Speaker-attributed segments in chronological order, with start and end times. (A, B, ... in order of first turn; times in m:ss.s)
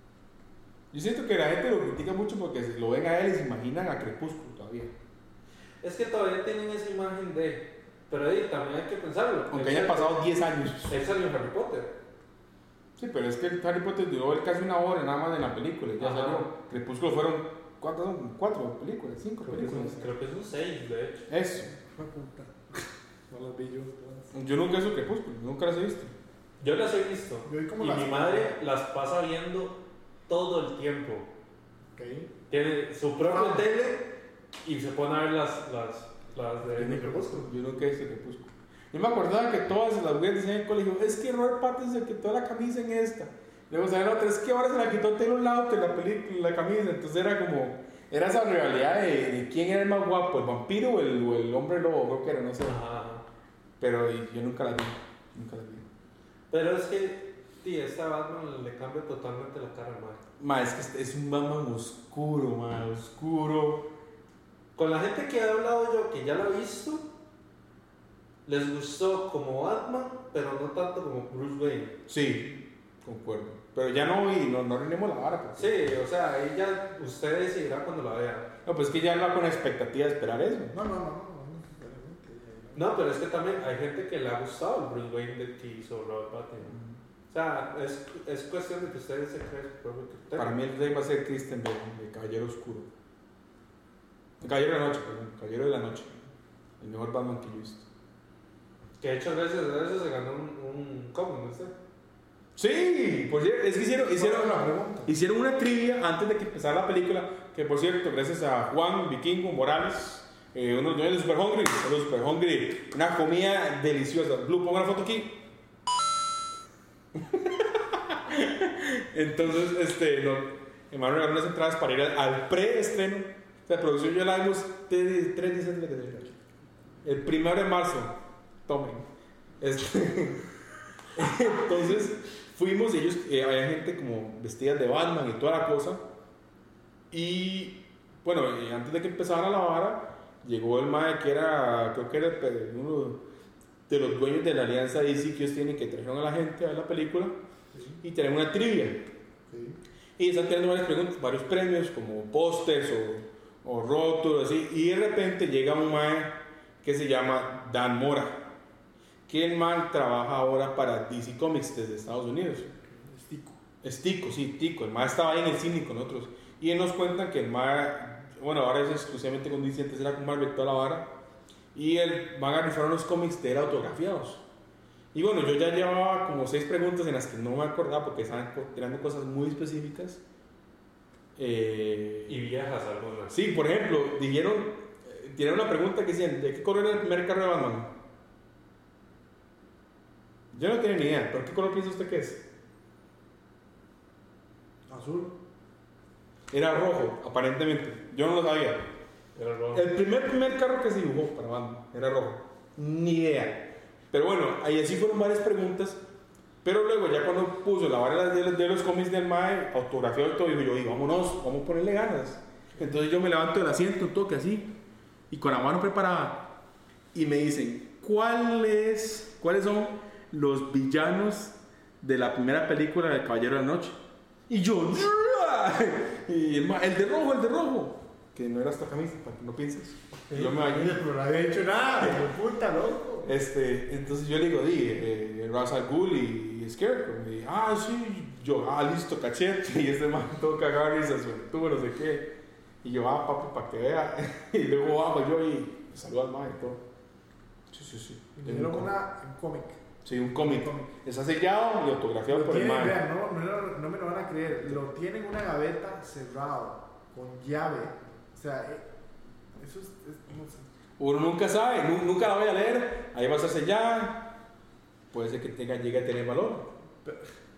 0:00.9-0:04.9 A
0:05.8-0:10.3 B
0:09.5-0:11.0 A
0:10.8-0:11.9 B
0:13.0-0:20.1 A
0:16.0-0:16.5 B
0:19.4-0:21.3 B
0:21.3-0:21.7 A
0:21.6-0:24.3 C
0:24.3-0:26.1 A
0:26.6-0:31.3 B
0:27.4-0:28.6 C
0:31.9-0:32.3 C
0:32.5-0:34.1 B
0:33.2-0:33.7 C
0:34.6-0:37.4 B
0:36.8-0:37.4 C
0:36.8-0:52.8 A
0:52.6-0:53.2 B
0:53.8-0:55.8 A
0:56.5-1:00.2 B
1:00.4-1:03.9 A
1:04.7-1:07.1 B
1:08.4-1:12.0 B
1:12.1-1:15.7 A
1:15.6-1:18.5 B
1:18.6-1:20.7 A
1:20.7-1:23.0 C
1:22.7-1:26.8 B
1:26.6-1:27.0 A
1:27.3-1:30.6 B
1:30.4-1:32.9 A
1:34.4-1:36.2 A
1:36.8-1:37.8 A
1:39.0-1:41.7 B
1:42.6-1:55.4 A
1:44.1-1:45.1 C
1:57.1-2:06.3 A
2:07.0-2:09.1 A
2:09.6-2:10.5 A
2:11.1-2:16.0 A
2:17.1-2:23.2 A
2:23.9-2:27.4 A
2:27.7-2:28.0 C
2:28.0-2:29.1 A
2:29.5-2:29.8 C
2:30.2-2:38.5 A
2:39.3-2:42.7 A
2:42.7-2:43.6 C
2:43.8-2:51.1 A
2:51.7-2:54.4 A
2:55.1-3:00.2 A
3:01.4-3:02.4 A
3:02.3-3:03.4 B
3:03.3-3:07.9 A
3:10.5-3:12.4 A
3:14.9-3:15.4 C
3:16.5-3:18.9 A
3:19.3-3:19.8 B
3:19.7-3:26.0 A
3:26.6-3:34.7 A
3:35.3-3:36.5 A
3:37.1-3:51.0 A
3:50.3-3:53.3 C
3:53.2-4:06.8 A
4:07.7-4:08.9 A
4:08.4-4:09.8 C
4:10.0-4:13.0 A
4:10.4-4:10.9 C
4:12.3-4:18.9 C
4:19.6-4:20.7 C
4:21.0-4:24.4 A
4:25.1-4:26.7 A
4:27.0-4:27.3 C